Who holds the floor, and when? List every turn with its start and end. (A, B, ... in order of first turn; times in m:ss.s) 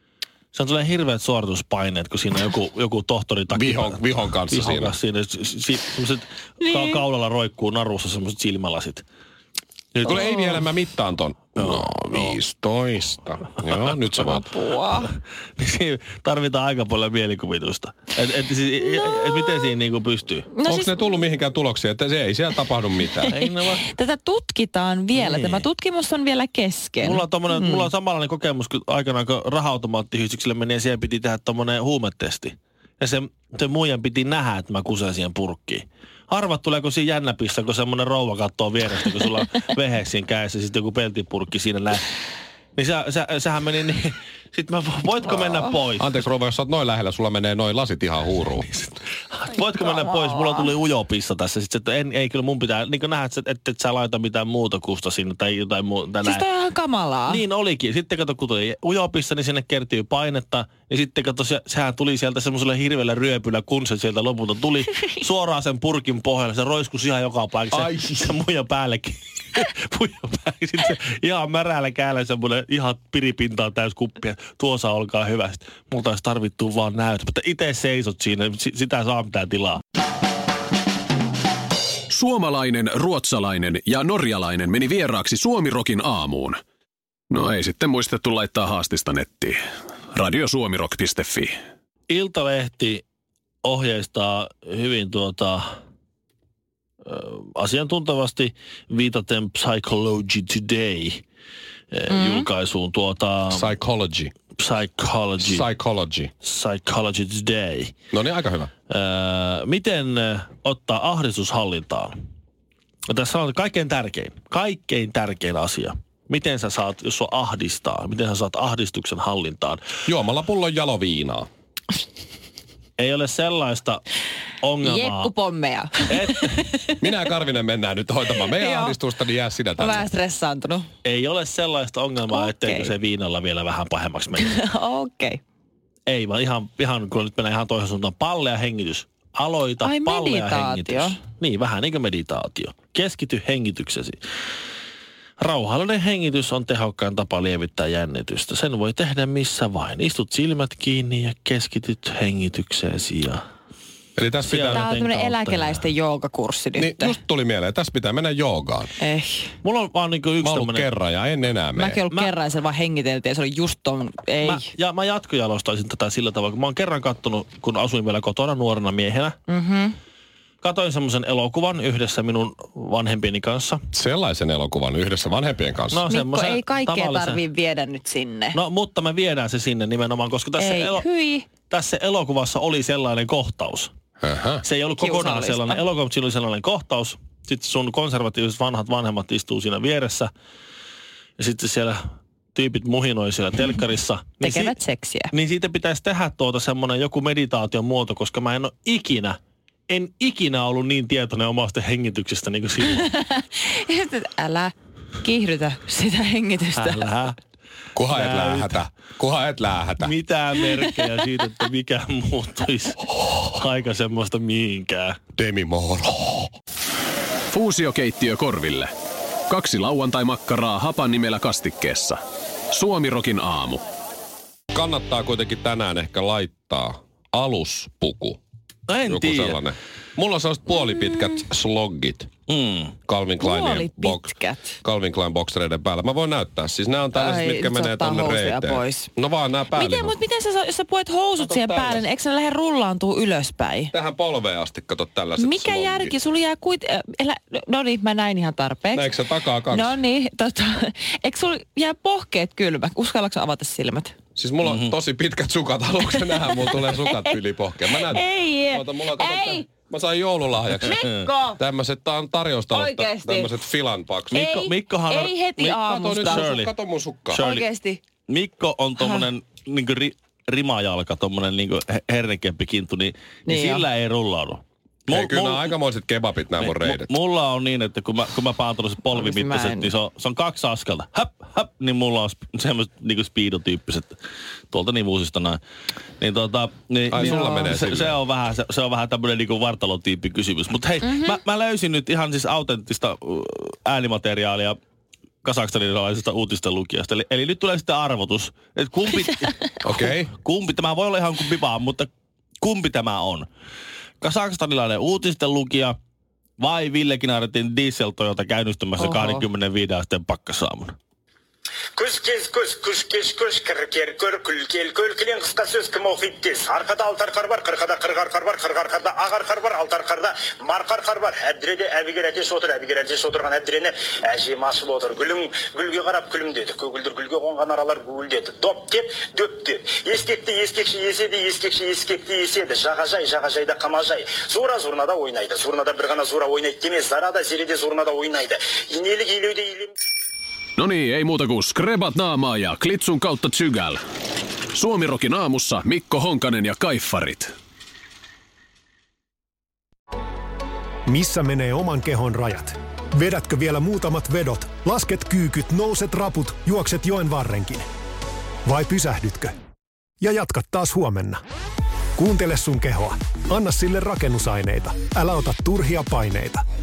0:00.5-0:09.0 A
0:03.5-0:04.9 B
0:06.6-0:07.0 C
0:09.9-0:10.3 A
0:10.0-0:14.5 B
0:10.1-0:10.5 C
0:11.6-0:12.3 A
0:14.3-0:15.1 C
0:15.6-0:20.5 A
0:18.9-0:19.6 C
0:20.5-0:21.1 C
0:20.6-0:23.3 B
0:23.2-0:27.9 C
0:23.3-0:23.9 A
0:25.1-0:25.7 A
0:27.0-0:42.0 A
0:42.8-0:46.1 A
0:46.0-0:48.7 B
0:48.8-0:56.4 A
0:49.8-0:50.7 C
0:56.2-0:57.4 C
0:57.3-1:19.8 A
1:07.8-1:08.3 B
1:22.1-1:26.6 D
1:27.3-1:29.6 D
1:30.1-1:31.5 D
1:32.1-1:33.0 A
1:33.6-1:35.7 A
1:37.0-1:41.2 A
1:41.9-1:43.7 A
1:42.1-1:42.5 C
1:43.5-1:44.3 B
1:44.6-1:45.7 A
1:45.4-1:46.3 B
1:46.4-1:47.9 A
1:48.1-1:48.7 B
1:48.9-1:52.1 A
1:53.1-1:59.8 A
2:00.0-2:01.5 B
2:03.0-2:04.0 A
2:04.6-2:05.3 A
2:04.8-2:07.0 C
2:06.1-2:06.6 A
2:07.0-2:10.1 B
2:08.4-2:09.0 C
2:09.8-2:10.9 C
2:11.0-2:14.6 A
2:12.3-2:12.9 C
2:14.4-2:15.4 C
2:16.1-2:24.2 A
2:19.8-2:21.2 C
2:25.4-2:33.4 A
2:34.2-2:34.9 B
2:34.4-2:35.8 A
2:34.7-2:37.2 C
2:36.8-2:38.9 B
2:39.0-2:39.5 C
2:39.6-2:40.9 A
2:40.4-2:42.0 B
2:41.8-2:44.7 C
2:44.4-2:49.4 A
2:49.5-2:50.0 C
2:50.6-2:53.8 A
2:53.9-2:56.0 B
2:55.9-2:57.4 A
2:56.1-2:58.6 C
2:58.5-3:01.1 A
3:00.6-3:01.5 C
3:01.7-3:03.9 A
3:04.2-3:04.6 B
3:04.6-3:10.3 A
3:05.0-3:05.8 C
3:11.4-3:12.0 A
3:12.6-3:14.8 A
3:14.4-3:15.3 C
3:15.3-3:23.1 A
3:22.9-3:27.1 C
3:26.7-3:27.4 A
3:28.0-3:30.1 B
3:28.1-3:28.8 A
3:30.0-3:35.2 A
3:35.4-3:36.5 B
3:37.5-3:38.9 D
3:39.5-3:42.2 D
3:42.7-3:43.8 D
3:44.7-3:48.4 B
3:48.9-3:49.6 A
3:49.1-3:52.3 B
3:52.5-3:53.0 A
3:53.1-3:54.3 B
3:53.4-3:54.8 C
3:54.8-4:00.2 B
3:57.2-3:59.1 C
3:59.7-4:03.9 C
4:01.4-4:02.0 B
4:03.9-4:06.1 B
4:05.4-4:09.1 C
4:08.9-4:10.0 B
4:09.7-4:14.1 C
4:14.4-4:24.4 B
4:14.6-4:15.0 A
4:16.1-4:19.7 C
4:20.8-4:21.6 C
4:21.0-4:21.3 A
4:22.7-4:23.6 C
4:24.3-4:25.4 A
4:24.3-4:26.5 C
4:25.6-4:27.4 B
4:26.2-4:26.7 A
4:27.3-4:28.0 C
4:27.3-4:27.6 A
4:28.3-4:35.7 A
4:29.0-4:29.3 C
4:33.5-4:33.9 C
4:35.1-4:37.1 B
4:36.6-4:44.2 A
4:39.1-4:39.9 C
4:44.7-4:45.6 A
4:46.2-4:54.8 A
4:47.1-4:48.2 B
4:47.2-4:47.7 C
4:51.1-4:51.4 C
4:55.4-5:02.1 A
4:59.8-5:00.3 B
5:02.6-5:03.5 A
5:04.2-5:06.0 A
5:06.6-5:11.0 A
5:09.0-5:09.4 C
5:12.0-5:39.9 E
5:40.8-5:44.0 D
5:44.7-5:47.5 D
5:51.1-5:57.9 F
5:58.6-5:59.6 F
6:00.2-6:01.4 F
6:02.2-6:06.6 F